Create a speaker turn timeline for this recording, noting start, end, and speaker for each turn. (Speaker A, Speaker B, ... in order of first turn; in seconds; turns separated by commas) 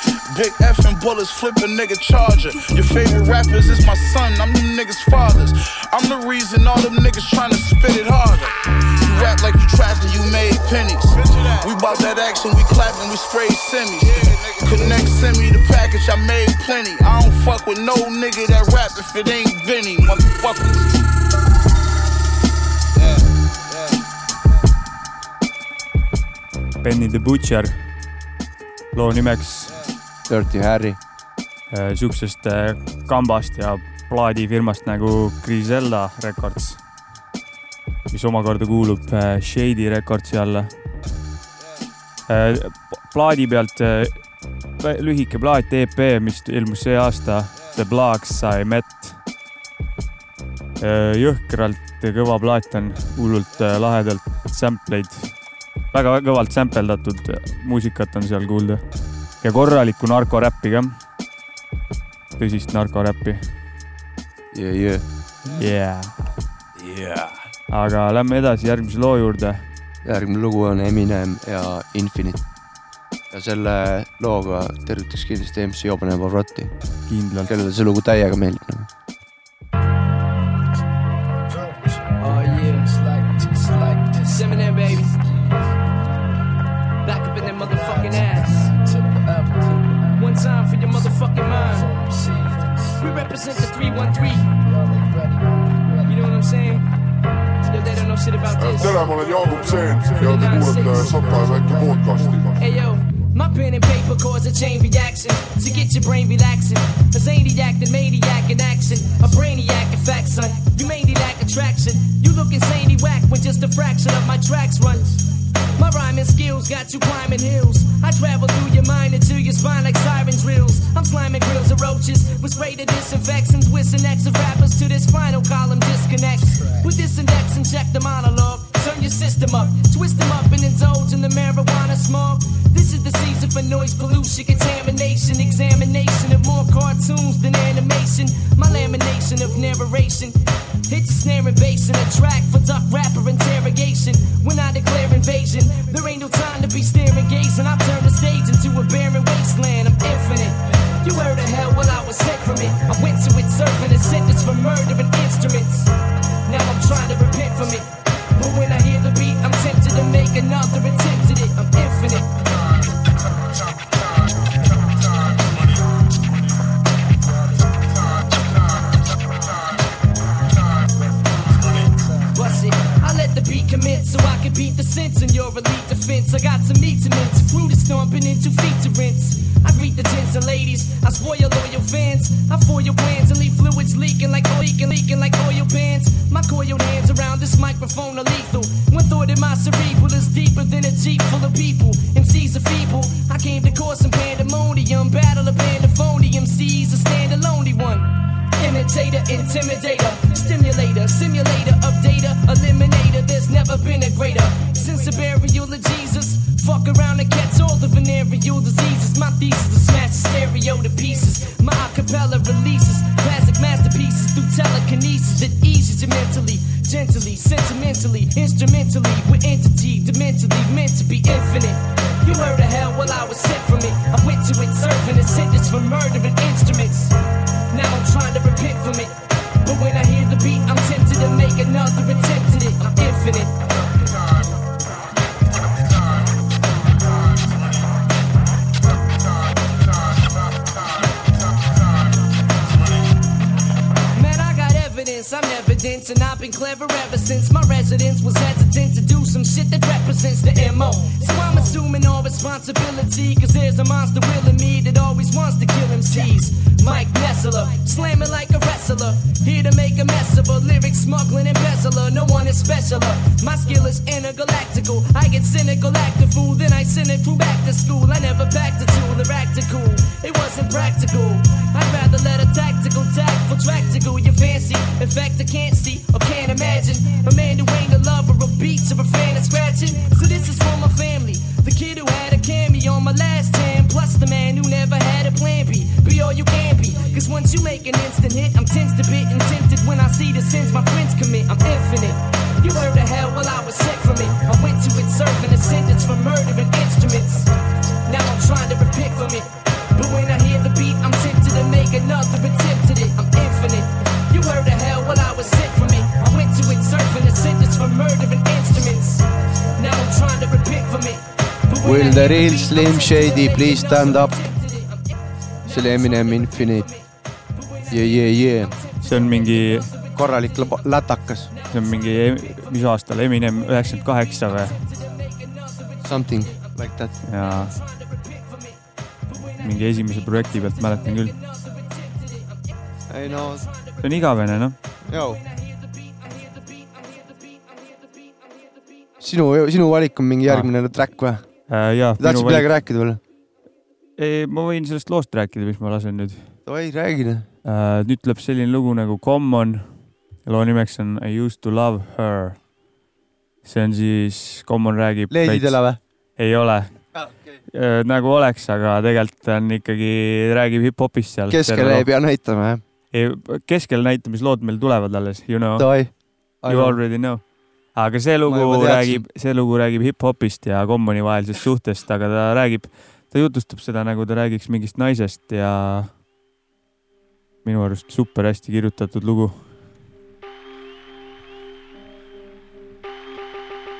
Speaker A: 0.3-20.9, Speaker B: 26.8-27.8, Speaker B: 28.9-29.8, Speaker C: 30.3-31.0, Speaker B: 31.7-36.8, Speaker B: 38.1-40.7, Speaker B: 42.3-44.2, Speaker B: 44.8-49.2, Speaker B: 50.8-55.3, Speaker B: 55.9-58.8, Speaker B: 59.4-60.9, Speaker B: 62.4-63.4, Speaker C: 64.5-65.0, Speaker B: 65.5-66.2, Speaker B: 67.7-69.6, Speaker C: 70.0-72.4, Speaker C: 73.3-76.7, Speaker B: 77.1-77.5, Speaker C: 77.5-78.9, Speaker D: 82.2-82.8, Speaker D: 84.3-85.2, Speaker D: 87.0-88.7, Speaker D: 90.1-91.9, Speaker D: 93.0-94.5, Speaker D: 96.0-96.8, Speaker D: 97.6-99.1, Speaker E: 98.9-102.1, Speaker D: 100.2-101.1, Speaker D: 102.6-115.2, Speaker D: 115.7-155.9, Speaker D: 156.4-162.4, Speaker D: 172.3-227.1, Speaker D: 227.7-233.6, Speaker D: 244.1-297.5, Speaker D: 298.1-309.2, Speaker D: 309.7-315.1, Speaker C: 311.8-314.3, Speaker C: 315.7-316.9, Speaker D: 315.7-317.0, Speaker D: 317.6-320.1, Speaker C: 317.9-318.8, Speaker B: 319.0-319.9, Speaker C: 320.1-321.5, Speaker B: 321.7-324.8, Speaker D: 324.7-326.6, Speaker C: 326.0-327.1, Speaker B: 327.2-327.7, Speaker D: 327.7-328.8, Speaker B: 329.6-331.3, Speaker D: 331.2-332.7, Speaker C: 333.1-333.6, Speaker D: 333.5-333.9, Speaker B: 334.0-334.8, Speaker C: 335.1-335.4, Speaker D: 335.2-338.8, Speaker C: 339.2-341.4, Speaker B: 341.7-342.7, Speaker C: 342.2-343.2, Speaker B: 344.2-346.4, Speaker C: 346.6-347.5, Speaker B: 347.6-349.9, Speaker B: 350.4-352.6, Speaker B: 353.6-355.8, Speaker C: 355.3-356.0, Speaker B: 356.4-356.9, Speaker C: 357.1-357.6, Speaker B: 357.7-362.1, Speaker C: 361.5-362.8, Speaker B: 363.1-365.9, Speaker C: 365.8-367.0, Speaker B: 366.7-367.4, Speaker B: 367.9-376.1, Speaker C: 368.4-369.2, Speaker B: 377.6-379.6